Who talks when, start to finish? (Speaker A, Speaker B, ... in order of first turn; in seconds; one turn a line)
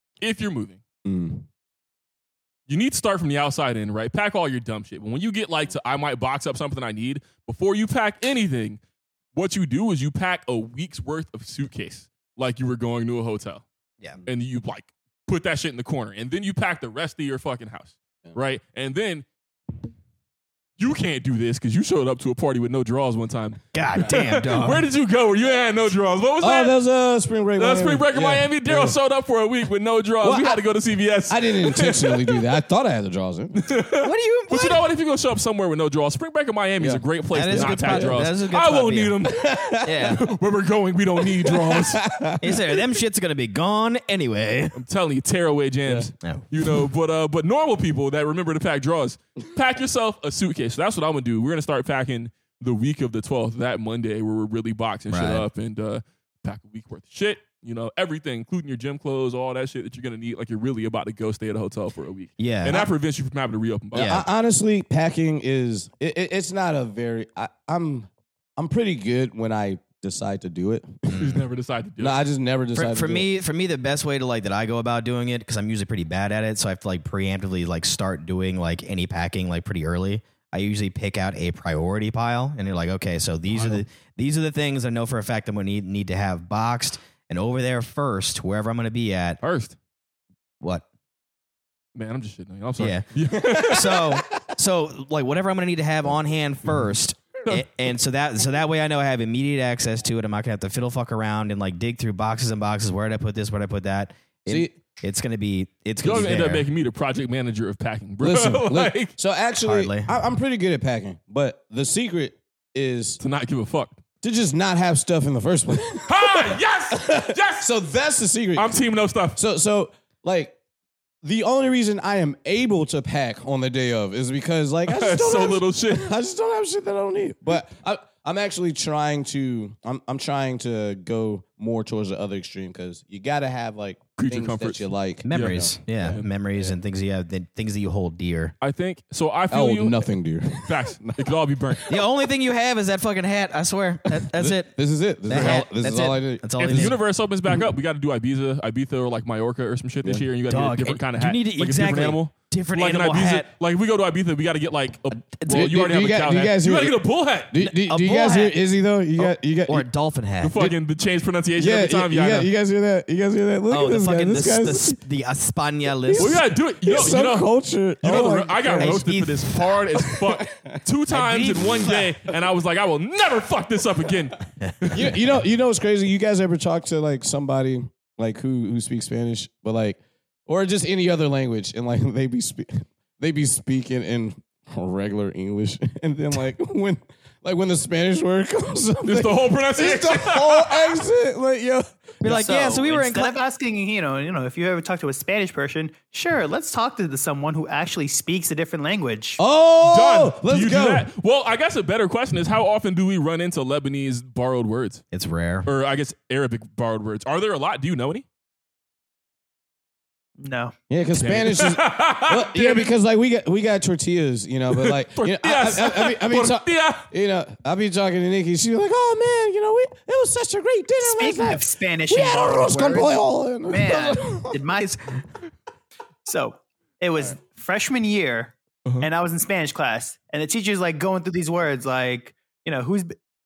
Speaker A: 0.2-0.8
Speaker B: 1.0-1.4
Speaker A: 2.7-8.8
Speaker A: 9.3-13.6
Speaker A: 14.2-19.2
Speaker A: 20.8-26.8
Speaker C: 23.7-24.9
Speaker B: 26.4-29.0
Speaker A: 27.6-32.5
Speaker B: 30.2-30.6
Speaker B: 31.3-33.6
Speaker A: 33.5-42.0
Speaker C: 34.0-34.8
Speaker B: 36.8-38.3
Speaker C: 37.3-39.1
Speaker B: 39.2-40.1
Speaker C: 39.8-40.2
Speaker B: 41.2-42.8
Speaker C: 42.4-44.8
Speaker A: 44.7-64.2
Speaker C: 55.1-55.5
Speaker C: 62.4-62.9
Speaker C: 63.9-64.2
Speaker B: 64.0-71.4
Speaker C: 71.1-71.3
Speaker A: 71.2-72.2
Speaker B: 72.0-73.3
Speaker C: 72.7-89.4
Speaker A: 83.5-83.8
Speaker A: 89.4-89.8
Speaker A: 91.9-94.1
Speaker C: 92.8-106.6
Speaker B: 104.5-104.7
Speaker A: 106.0-109.1
Speaker B: 108.2-113.2
Speaker C: 109.6-110.1
Speaker A: 113.2-114.0
Speaker B: 114.2-118.8
Speaker A: 116.0-117.7
Speaker A: 118.5-119.4
Speaker B: 119.3-120.5
Speaker B: 121.2-136.1
Speaker A: 124.9-126.1
Speaker A: 134.2-136.3
Speaker C: 135.2-138.5
Speaker A: 138.6-141.9
Speaker B: 139.5-141.2
Speaker C: 141.9-144.7
Speaker B: 144.1-147.0
Speaker C: 145.2-147.0
Speaker A: 145.3-145.6
Speaker A: 146.6-157.5
Speaker C: 150.5-153.5
Speaker C: 155.1-155.7
Speaker B: 155.5-159.9
Speaker C: 157.7-158.6
Speaker C: 159.7-160.6
Speaker A: 160.4-162.5
Speaker B: 161.6-165.0
Speaker C: 163.7-166.4
Speaker B: 166.0-169.1
Speaker A: 166.2-167.5
Speaker A: 168.0-175.2
Speaker C: 168.8-169.6
Speaker B: 170.0-170.8
Speaker C: 171.1-172.1
Speaker B: 174.9-191.9
Speaker A: 189.0-190.9
Speaker C: 192.2-193.4
Speaker D: 192.2-199.4
Speaker B: 199.4-201.1
Speaker A: 199.8-205.0
Speaker C: 205.1-205.7
Speaker A: 205.7-208.2
Speaker D: 210.4-210.7
Speaker B: 210.9-224.6
Speaker A: 211.1-212.9
Speaker A: 214.7-217.1
Speaker D: 221.0-225.2
Speaker D: 226.2-233.1